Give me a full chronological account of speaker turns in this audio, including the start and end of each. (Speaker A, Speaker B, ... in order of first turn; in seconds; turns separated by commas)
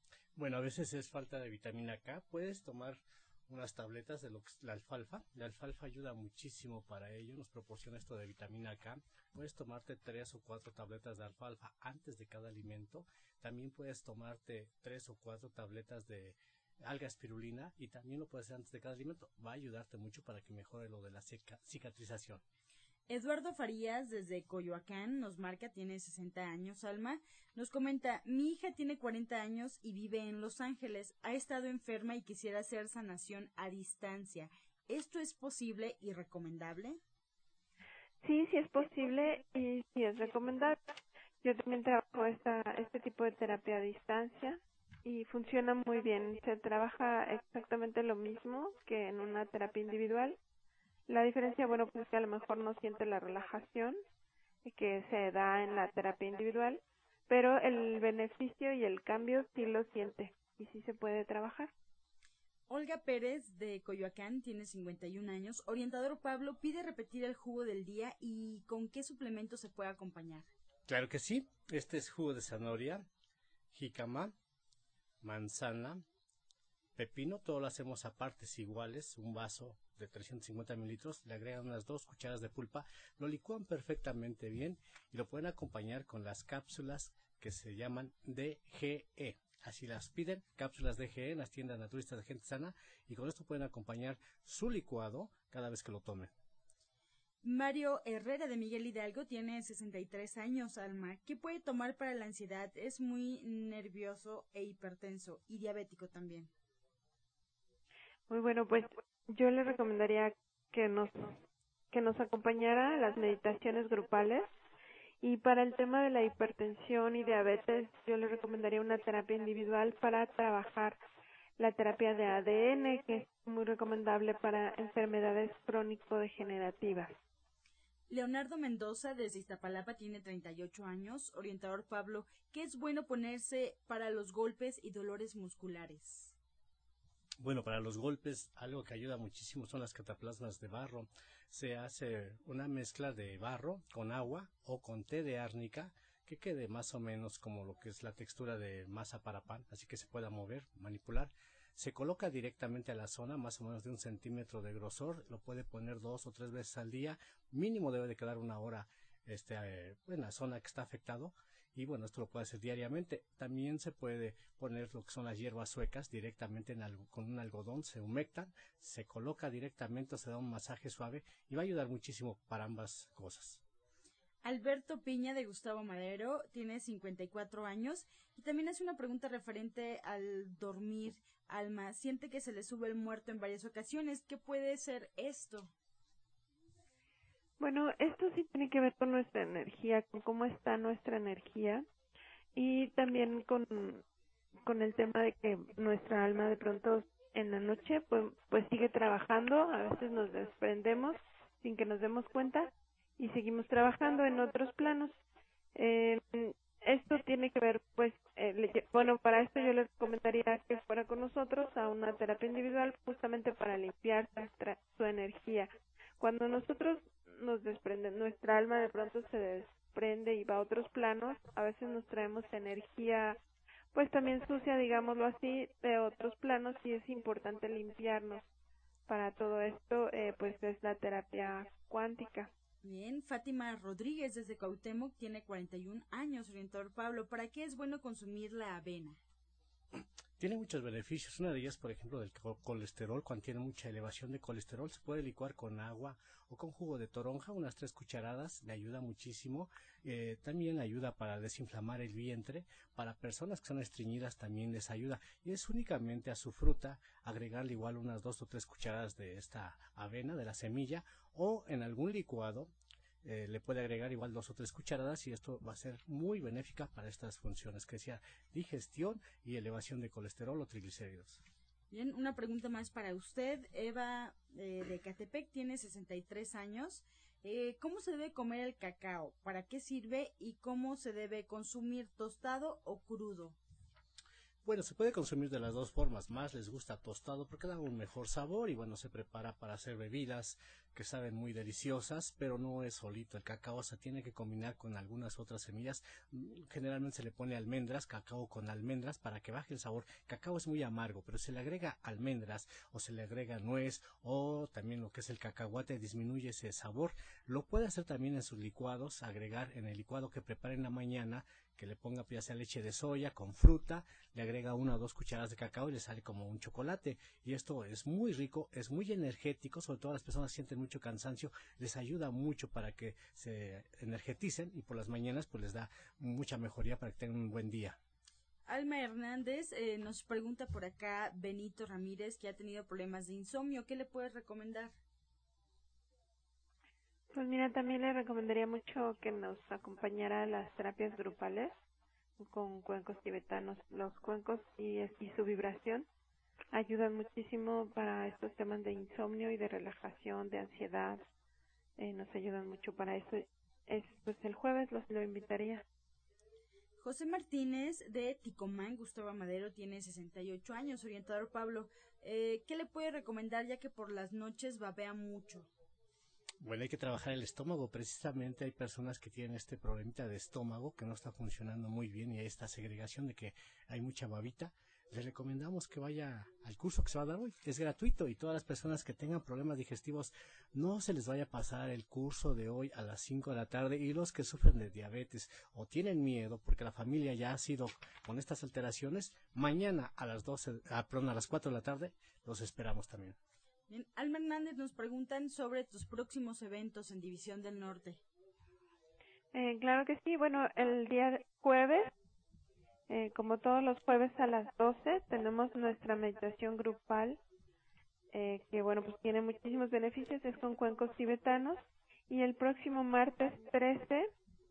Speaker A: 0.3-22.4, Speaker B: 23.1-37.0, Speaker C: 38.2-50.4, Speaker C: 51.1-54.0, Speaker C: 54.6-61.7, Speaker B: 62.7-70.5, Speaker A: 70.9-73.1, Speaker A: 73.7-74.3, Speaker A: 75.2-76.0, Speaker A: 77.0-96.3, Speaker B: 97.4-106.5, Speaker C: 108.3-111.4, Speaker C: 111.9-114.5, Speaker C: 115.2-121.0, Speaker C: 121.6-127.2, Speaker B: 128.1-136.3, Speaker A: 137.4-173.6, Speaker B: 174.4-185.7, Speaker C: 187.6-191.8, Speaker C: 192.5-194.0, Speaker C: 194.6-205.2, Speaker C: 205.7-223.4, Speaker C: 223.9-228.4, Speaker C: 229.1-232.5, Speaker B: 232.8-239.2, Speaker A: 239.9-262.7, Speaker A: 263.2-271.4, Speaker B: 271.9-283.6, Speaker A: 284.6-328.0, Speaker B: 328.7-334.9, Speaker C: 337.3-341.7, Speaker C: 342.4-346.1, Speaker C: 346.7-351.3, Speaker C: 352.0-355.8, Speaker B: 357.0-365.7, Speaker A: 366.6-393.4, Speaker B: 393.9-398.2, Speaker C: 399.5-402.1, Speaker C: 403.1-407.4, Speaker C: 408.3-414.3